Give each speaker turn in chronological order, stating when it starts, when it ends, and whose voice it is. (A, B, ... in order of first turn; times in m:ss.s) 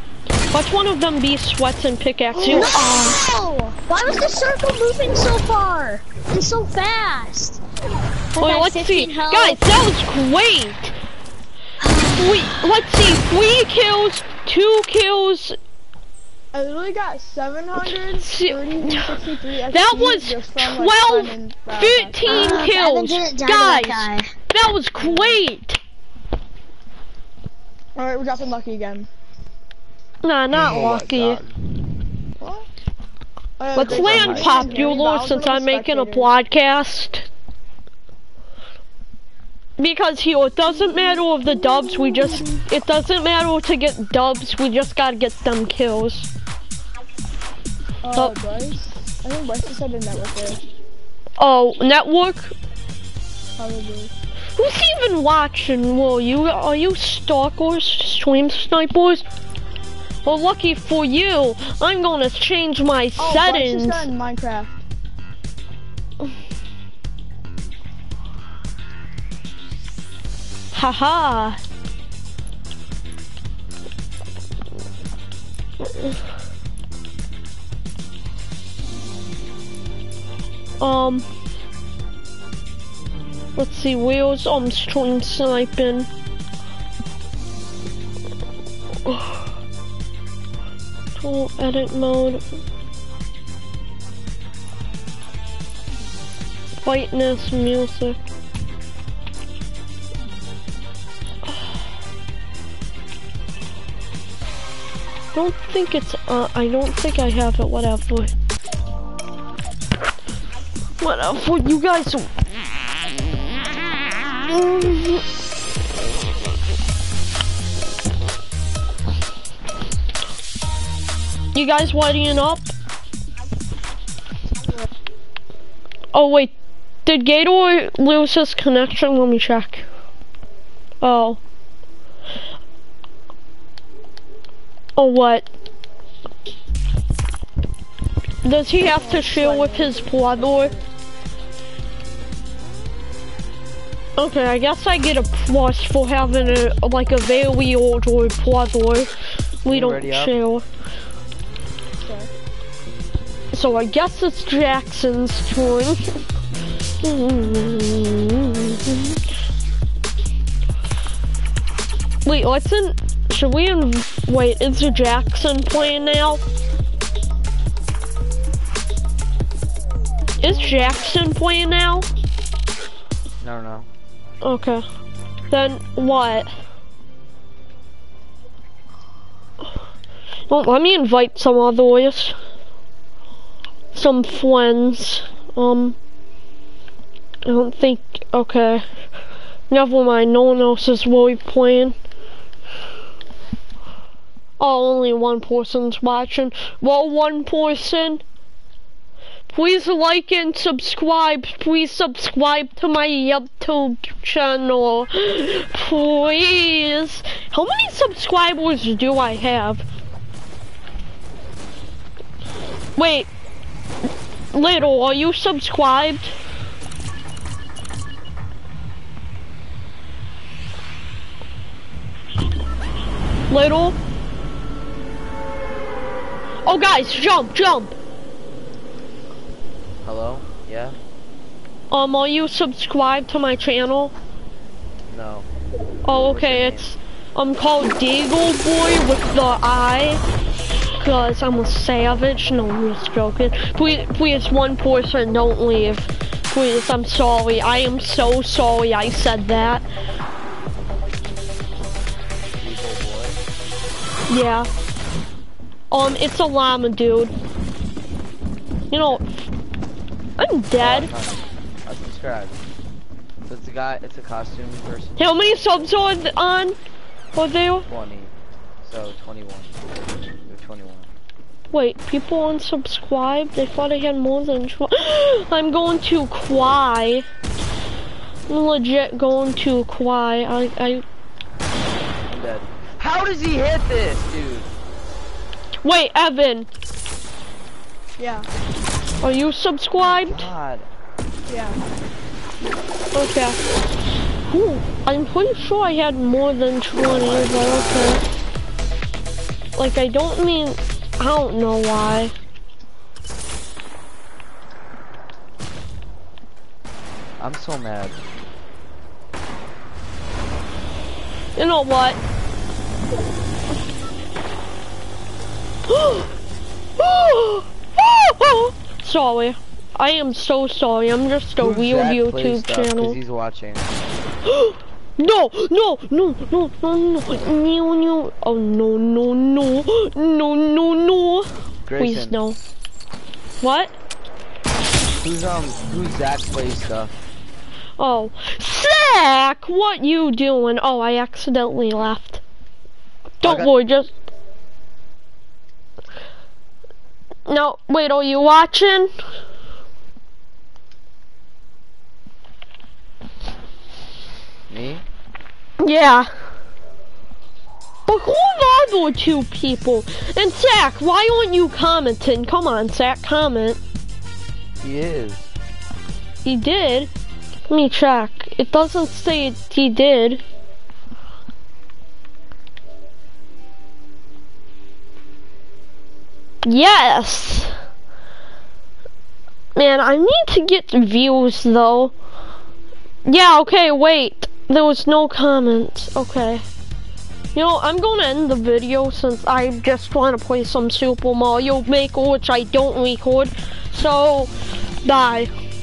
0:00.5-0:03.2 A
0:02.4-0:07.6 B
0:02.5-0:02.7 C
0:08.3-0:09.6 B
0:08.4-0:10.9 A
0:11.8-0:12.6 B
0:12.2-0:15.6 A
0:16.5-0:22.5 C
0:17.8-0:19.2 A
0:19.7-0:25.8 A
0:22.2-0:24.3 B
0:25.0-0:25.4 C
0:28.0-0:29.1 C
0:30.2-0:31.4 A
0:30.5-0:31.5 D
0:32.4-0:32.6 C
0:33.6-0:36.3 C
0:33.7-0:37.3 A
0:33.8-0:34.7 D
0:39.8-0:46.3 A
0:48.0-0:50.6 C
0:51.4-0:52.5 A
0:53.6-0:54.1 C
0:54.6-0:59.2 A
1:00.2-1:04.1 A
1:03.2-1:04.8 C
1:10.7-1:11.6 A
1:15.8-1:16.2 A
1:20.8-1:21.2 A
1:23.6-1:26.1 A
1:29.0-1:29.4 A
1:31.2-1:32.6 A
1:36.8-1:38.2 A
1:45.3-1:48.3 A
1:51.0-1:52.3 A
1:54.5-1:55.2 A
2:01.5-2:02.7 A
2:06.1-2:06.5 A
2:07.0-2:09.8 A
2:11.0-2:11.4 A
2:15.0-2:15.5 A
2:18.4-2:20.7 A
2:18.8-2:20.9 C
2:24.2-2:29.1 A
2:29.6-2:30.6 A
2:29.6-2:30.3 D
2:32.0-2:32.3 C
2:33.5-2:36.0 A
2:37.0-2:39.2 A
2:42.2-2:46.4 A
2:50.4-2:52.1 A
2:53.4-2:53.9 D
2:54.4-2:54.8 A
2:55.5-2:56.5 A
3:00.5-3:02.4 A
3:03.9-3:06.0 A
3:07.4-3:08.8 A
3:09.7-3:12.0 A
3:14.6-3:18.2 A
3:19.5-3:29.8 A
3:33.0-3:33.3 A
3:34.5-3:36.3 A
3:43.5-3:44.0 A
3:46.6-3:48.0 A
3:50.0-3:51.0 D
3:51.9-3:54.1 A
3:55.1-3:55.5 D
3:56.0-4:00.2 A
3:56.1-3:57.0 D
4:01.0-4:09.8 A
4:12.5-4:13.4 D
4:14.3-4:14.7 A
4:15.9-4:17.3 A
4:18.9-4:19.2 A
4:20.4-4:21.1 A
4:20.8-4:22.6 D
4:23.5-4:26.0 D
4:25.2-4:26.8 A
4:27.3-4:27.9 A
4:27.9-4:29.8 D
4:30.4-4:31.1 D
4:31.7-4:37.2 A
4:38.5-4:41.0 A
4:42.3-4:44.7 D
4:45.8-4:46.7 A
4:48.2-4:48.5 C
4:49.2-4:50.5 A
4:50.0-4:50.9 D
4:51.5-4:51.8 C
4:53.1-4:53.6 A
4:54.5-4:58.2 A
4:57.0-4:58.2 D
4:59.8-5:02.3 A
5:07.4-5:08.3 D
5:11.6-5:12.2 A
5:15.9-5:16.3 A
5:17.0-5:23.2 A
5:21.6-5:23.9 D
5:24.4-5:32.6 A
5:31.8-5:32.4 D
5:33.6-5:33.9 A
5:35.2-5:37.1 D
5:38.0-5:42.4 A
5:43.4-5:44.1 A
5:43.4-5:43.7 D
5:47.4-5:49.1 A
5:54.7-5:55.0 D
5:55.8-5:56.3 A
5:58.1-6:03.8 A
6:04.8-6:05.5 D
6:06.4-6:07.1 A
6:07.7-6:10.4 A
6:16.6-6:17.7 A
6:19.7-6:22.1 A
6:23.2-6:26.6 A
6:27.5-6:34.5 A
6:35.0-6:35.5 A